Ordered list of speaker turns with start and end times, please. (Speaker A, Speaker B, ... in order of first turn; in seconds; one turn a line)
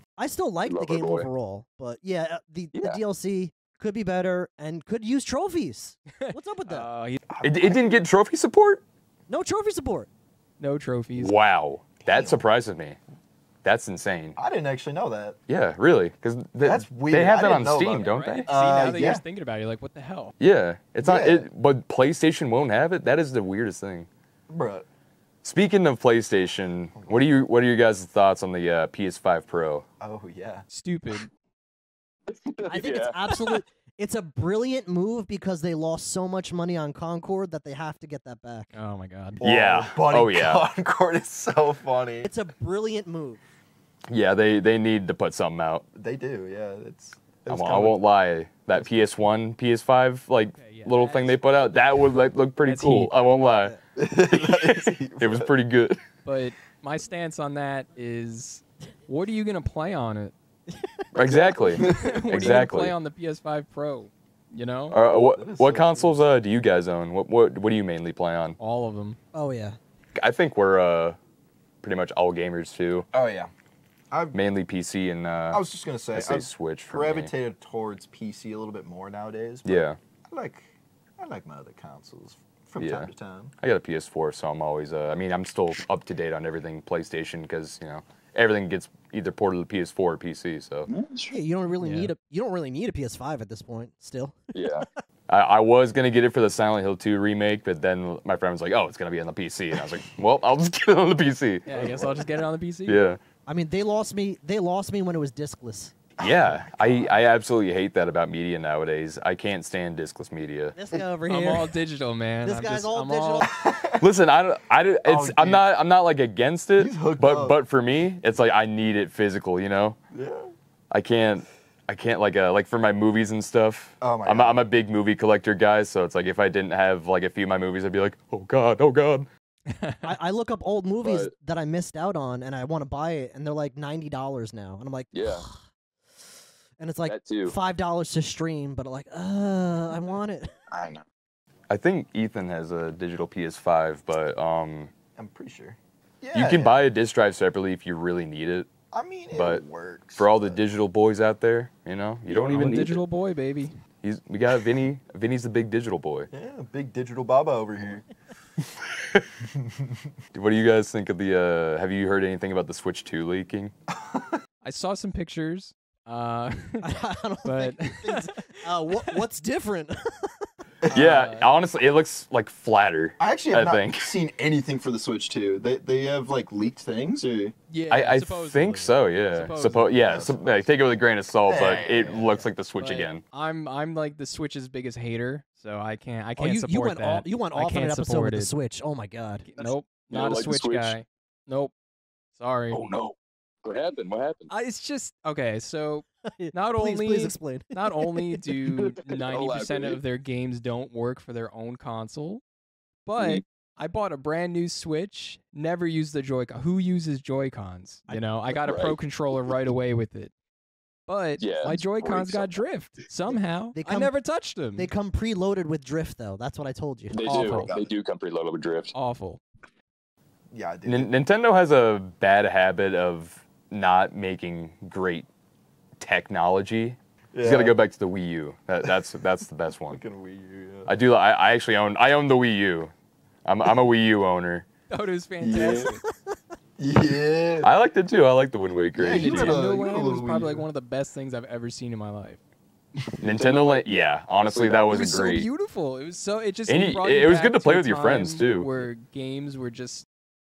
Speaker A: 0.2-6.9
Speaker B: 0.7-1.3
Speaker B: 2.7-3.0
Speaker C: 6.2-7.2
Speaker D: 7.3-8.0
Speaker E: 7.4-8.8
Speaker A: 9.3-10.1
Speaker C: 10.6-11.3
Speaker E: 11.2-13.0
Speaker D: 12.1-12.4
Speaker E: 13.6-14.4
Speaker D: 14.4-15.4
Speaker E: 15.5-18.5
Speaker D: 16.6-19.2
Speaker C: 18.0-20.3
Speaker E: 20.4-24.1
Speaker D: 21.0-21.5
Speaker D: 24.5-24.9
Speaker E: 25.4-29.9
Speaker D: 26.9-27.3
Speaker D: 30.0-30.7
Speaker C: 30.7-31.3
Speaker B: 32.3-33.6
Speaker A: 32.7-38.7
Speaker C: 38.7-39.4
Speaker D: 39.4-42.3
Speaker E: 39.4-40.6
Speaker A: 42.2-43.4
Speaker E: 44.1-45.9
Speaker D: 45.9-48.0
Speaker E: 47.5-53.8
Speaker C: 50.5-51.4
Speaker C: 52.6-53.1
Speaker A: 53.4-53.8
Speaker D: 54.0-55.5
Speaker E: 54.3-56.0
Speaker C: 56.2-60.3
Speaker A: 60.7-61.0
Speaker E: 61.1-63.0
Speaker C: 61.3-65.0
Speaker D: 61.8-62.2
Speaker E: 64.9-68.6
Speaker D: 65.1-66.2
Speaker C: 68.6-69.2
Speaker A: 69.3-69.8
Speaker E: 70.2-71.2
Speaker E: 71.8-73.1
Speaker D: 73.1-73.5
Speaker D: 74.1-74.4
Speaker E: 74.3-77.3
Speaker D: 75.5-83.5
Speaker E: 79.7-80.0
Speaker E: 82.8-83.1
Speaker E: 83.6-90.9
Speaker B: 90.9-91.4
Speaker A: 91.3-94.8
Speaker C: 91.8-92.1
Speaker B: 94.5-94.9
Speaker E: 95.3-101.9
Speaker C: 101.7-103.0
Speaker E: 102.9-103.2
Speaker A: 103.5-106.0
Speaker D: 106.2-107.2
Speaker E: 106.2-110.8
Speaker A: 110.7-111.8
Speaker C: 111.3-113.5
Speaker A: 112.4-113.6
Speaker D: 113.5-114.1
Speaker E: 114.0-120.0
Speaker D: 115.0-115.7
Speaker D: 116.8-117.6
Speaker D: 120.1-120.5
Speaker E: 120.9-129.3
Speaker D: 124.0-124.7
Speaker C: 129.7-130.1
Speaker A: 130.0-135.6
Speaker B: 131.0-131.3
Speaker B: 135.1-135.4
Speaker A: 136.8-140.6
Speaker E: 137.1-137.5
Speaker B: 137.2-137.5
Speaker B: 140.7-141.1
Speaker E: 141.7-144.9
Speaker D: 145.2-146.8
Speaker E: 146.3-148.7
Speaker D: 148.9-150.6
Speaker E: 149.3-149.6
Speaker E: 150.2-153.0
Speaker B: 152.3-152.9
Speaker C: 152.5-153.8
Speaker E: 154.0-156.3
Speaker D: 156.3-158.1
Speaker E: 158.8-159.3
Speaker D: 159.5-160.1
Speaker E: 160.3-163.7
Speaker D: 163.9-164.4
Speaker C: 164.6-166.9
Speaker A: 166.8-170.5
Speaker C: 167.4-168.3
Speaker D: 170.8-171.1
Speaker C: 170.9-171.5
Speaker E: 170.9-174.1
Speaker D: 173.2-177.6
Speaker C: 177.7-180.0
Speaker E: 177.9-183.2
Speaker D: 179.9-180.7
Speaker D: 181.5-182.3
Speaker C: 182.8-188.5
Speaker A: 186.4-189.5
Speaker C: 189.4-191.7
Speaker B: 189.6-191.0
Speaker C: 192.4-192.8
Speaker B: 192.7-194.5
Speaker C: 194.5-202.4
Speaker A: 196.3-198.4
Speaker B: 198.7-200.0
Speaker C: 203.1-210.3
Speaker B: 203.2-203.4
Speaker A: 208.1-209.0
Speaker B: 208.6-209.0
Speaker C: 211.1-214.9
Speaker B: 211.4-212.6
Speaker A: 213.8-214.2
Speaker A: 214.7-217.4
Speaker B: 217.1-218.9
Speaker C: 217.2-217.7
Speaker D: 217.3-217.9
Speaker C: 218.9-219.4
Speaker D: 220.5-221.1
Speaker E: 220.8-225.3
Speaker E: 226.0-230.0
Speaker D: 227.3-227.8
Speaker D: 229.9-230.9
Speaker E: 230.9-232.9
Speaker E: 233.4-234.7
Speaker C: 234.9-236.0
Speaker D: 235.4-235.9
Speaker B: 235.5-235.9
Speaker D: 236.8-237.7
Speaker E: 237.6-239.6
Speaker D: 238.9-240.7
Speaker C: 239.1-242.4
Speaker E: 243.2-245.5
Speaker B: 243.3-245.2
Speaker C: 244.9-250.1
Speaker E: 246.7-248.7